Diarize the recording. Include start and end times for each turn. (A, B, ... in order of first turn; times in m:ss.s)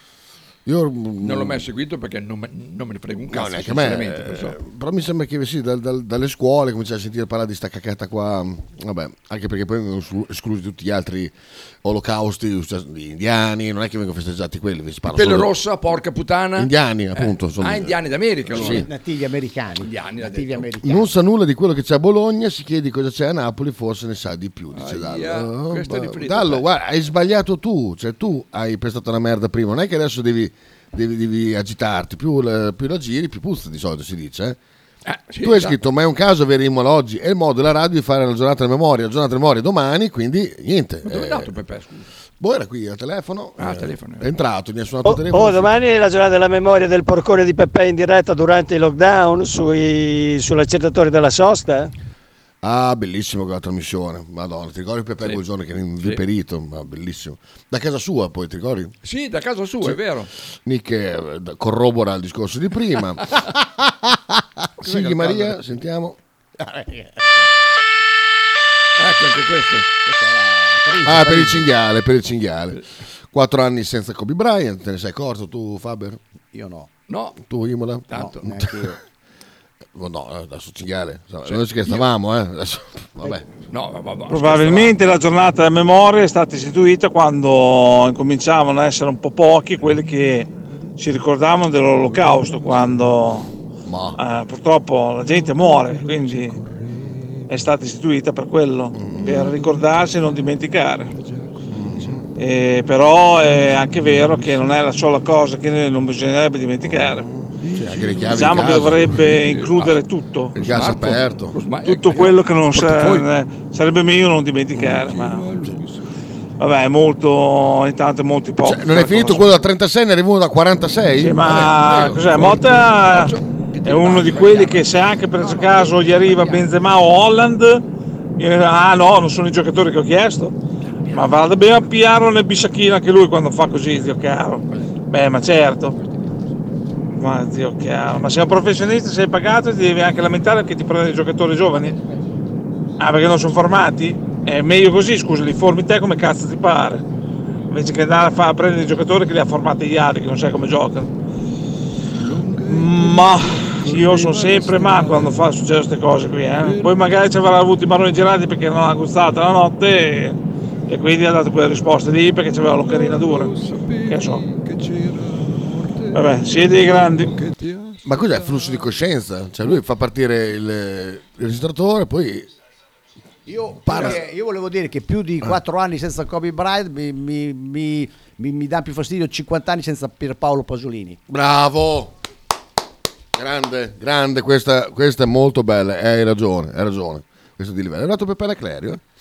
0:00.6-0:01.7 A
0:01.2-0:04.6 B
0:03.3-0:15.5 A
0:15.1-0:18.9 B
0:16.6-0:18.0 A
0:18.5-0:18.9 A
0:18.6-0:21.1 C
0:19.8-0:20.7 B
0:20.8-0:34.6 A
0:24.7-0:26.6 B
0:35.0-0:35.8 B
0:35.4-0:41.5 A
0:41.0-0:42.1 B
0:42.4-0:45.7 A
0:43.6-0:44.2 B
0:45.0-0:51.9 D
0:52.6-0:58.9 A
0:59.0-1:00.3 B
1:00.6-1:03.4 A
1:04.8-1:06.2 A
1:06.6-1:07.5 C
1:09.0-1:09.9 B
1:10.0-1:11.7 C
1:11.0-1:16.2 A
1:16.5-1:16.9 C
1:17.1-1:17.4 B
1:17.4-1:18.8 A
1:18.1-1:18.4 B
1:18.1-1:19.0 C
1:19.9-1:23.4 A
1:23.7-1:25.0 B
1:24.3-1:33.5 E
1:33.8-1:34.2 A
1:34.2-1:36.6 E
1:37.5-1:41.1 E
1:38.9-1:39.4 A
1:41.2-1:42.0 B
1:41.7-1:42.2 A
1:42.4-1:47.2 E
1:46.8-1:49.2 A
1:47.6-1:48.5 B
1:48.3-1:50.5 E
1:49.2-1:49.9 B
1:50.5-1:51.6 A
1:50.6-1:53.3 B
1:51.8-1:55.5 E
1:54.8-1:56.0 B
1:56.6-1:59.5 E
1:58.6-2:02.5 A
2:01.2-2:03.3 E
2:01.6-2:06.6 B
2:03.8-2:07.8 E
2:08.4-2:10.5 E
2:11.0-2:11.3 B
2:11.1-2:15.9 E
2:17.2-2:21.9 E
2:23.0-2:27.0 E
2:27.7-2:31.1 E
2:32.2-2:35.3 B
2:32.7-2:43.5 E
2:36.6-2:36.9 B
2:42.8-2:48.8 B
2:44.1-2:44.4 E
2:46.1-2:47.3 E
2:48.0-2:52.5 A
2:53.5-3:01.2 C
2:53.9-2:54.2 B
2:53.9-2:54.2 A
3:01.3-3:02.1 A
3:03.3-3:09.0 A